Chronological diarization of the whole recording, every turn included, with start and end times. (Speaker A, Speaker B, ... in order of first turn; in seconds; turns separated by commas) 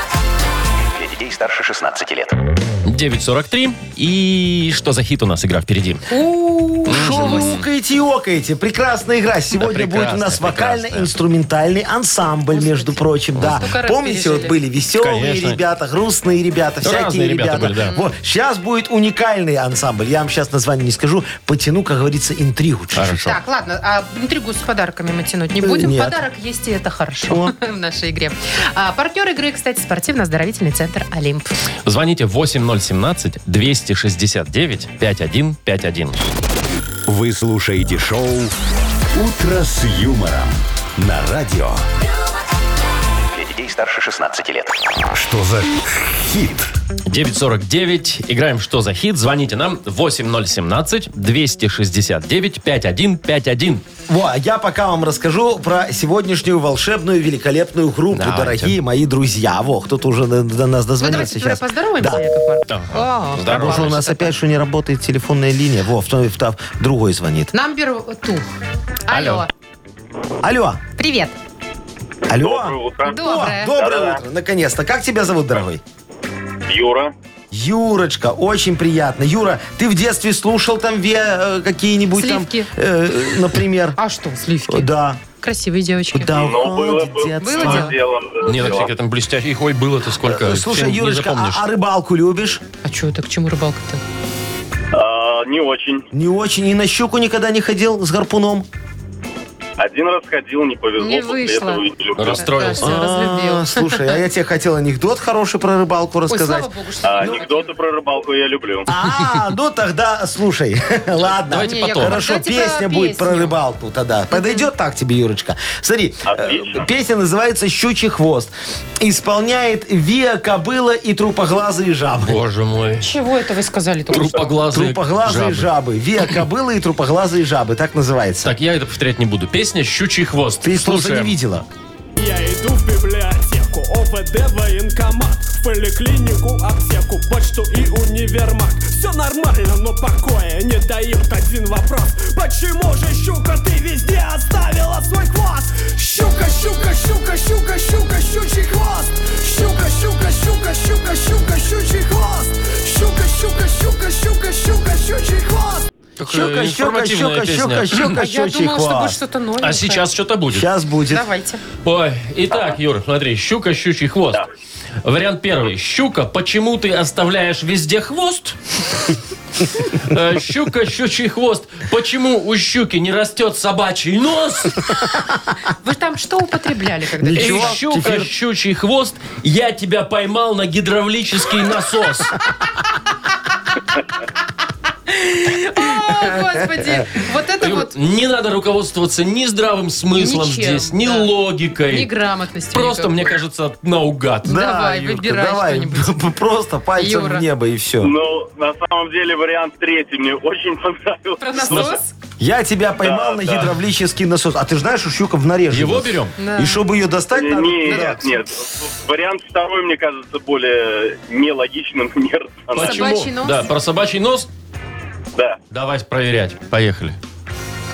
Speaker A: 0.9-2.4, Speaker B: 2.8-6.1, Speaker C: 6.1-7.5, Speaker D: 6.8-23.3, Speaker B: 6.9-7.7, Speaker B: 9.6-11.1, Speaker C: 12.5-14.6, Speaker B: 13.4-13.6, Speaker B: 15.0-15.6, Speaker B: 16.8-17.9, Speaker C: 17.6-18.1, Speaker B: 22.9-23.4, Speaker C: 23.2-31.5, Speaker D: 25.6-26.2, Speaker D: 27.3-27.5, Speaker B: 31.8-36.2, Speaker E: 37.0-38.5, Speaker E: 39.1-41.8, Speaker A: 43.3-44.8, Speaker E: 45.1-46.7, Speaker B: 47.1-53.8, Speaker D: 54.1-62.2, Speaker B: 58.1-58.8, Speaker C: 61.0-64.3, Speaker B: 62.7-64.0, Speaker D: 63.5-67.5, Speaker C: 67.5-68.5, Speaker C: 69.1-69.5, Speaker B: 69.1-69.5, Speaker D: 70.4-70.8, Speaker C: 71.0-71.3, Speaker D: 72.3-75.8, Speaker F: 72.3-73.2, Speaker C: 73.0-73.8, Speaker F: 73.7-74.2, Speaker F: 76.7-77.1, Speaker D: 77.5-84.0, Speaker C: 82.1-82.7, Speaker C: 84.0-86.6, Speaker D: 84.7-85.2, Speaker D: 86.1-88.0, Speaker F: 86.3-88.9, Speaker C: 87.4-87.9, Speaker B: 88.4-91.6, Speaker D: 90.2-92.6, Speaker C: 92.8-94.0, Speaker F: 94.9-96.1, Speaker D: 96.1-98.7, Speaker F: 99.8-102.5, Speaker C: 101.0-104.2, Speaker B: 102.2-103.0, Speaker D: 102.7-107.5, Speaker C: 106.3-107.7, Speaker F: 107.0-108.9, Speaker D: 108.9-122.4, Speaker B: 111.5-112.2, Speaker C: 111.6-113.5, Speaker C: 114.3-114.7, Speaker F: 116.2-116.8, Speaker B: 122.2-123.1, Speaker C: 123.0-124.5, Speaker B: 124.1-125.7, Speaker D: 124.7-128.5, Speaker B: 128.4-131.3, Speaker D: 130.6-131.7, Speaker G: 132.2-155.9, Speaker B: 156.2-158.2, Speaker D: 156.3-159.2, Speaker C: 158.0-160.0, Speaker B: 159.6-160.7, Speaker D: 160.5-161.2, Speaker C: 161.1-161.6, Speaker B: 161.8-164.4, Speaker B: 165.0-169.1, Speaker B: 169.7-174.9, Speaker C: 175.8-177.8, Speaker D: 177.2-178.3, Speaker B: 177.3-182.4, Speaker C: 185.1-187.9, Speaker D: 186.2-186.8, Speaker B: 187.6-192.1, Speaker C: 190.1-191.3, Speaker C: 191.9-193.3, Speaker B: 192.7-194.6, Speaker D: 194.4-198.1, Speaker C: 194.4-196.1, Speaker C: 197.0-197.4, Speaker F: 198.0-202.0, Speaker C: 201.4-202.1, Speaker B: 201.7-201.9, Speaker D: 202.4-208.2, Speaker F: 203.0-203.7, Speaker B: 205.7-206.3, Speaker C: 206.4-206.8, Speaker F: 207.3-213.2, Speaker C: 207.8-208.2, Speaker B: 212.7-214.5, Speaker C: 212.8-213.7, Speaker B: 215.7-217.2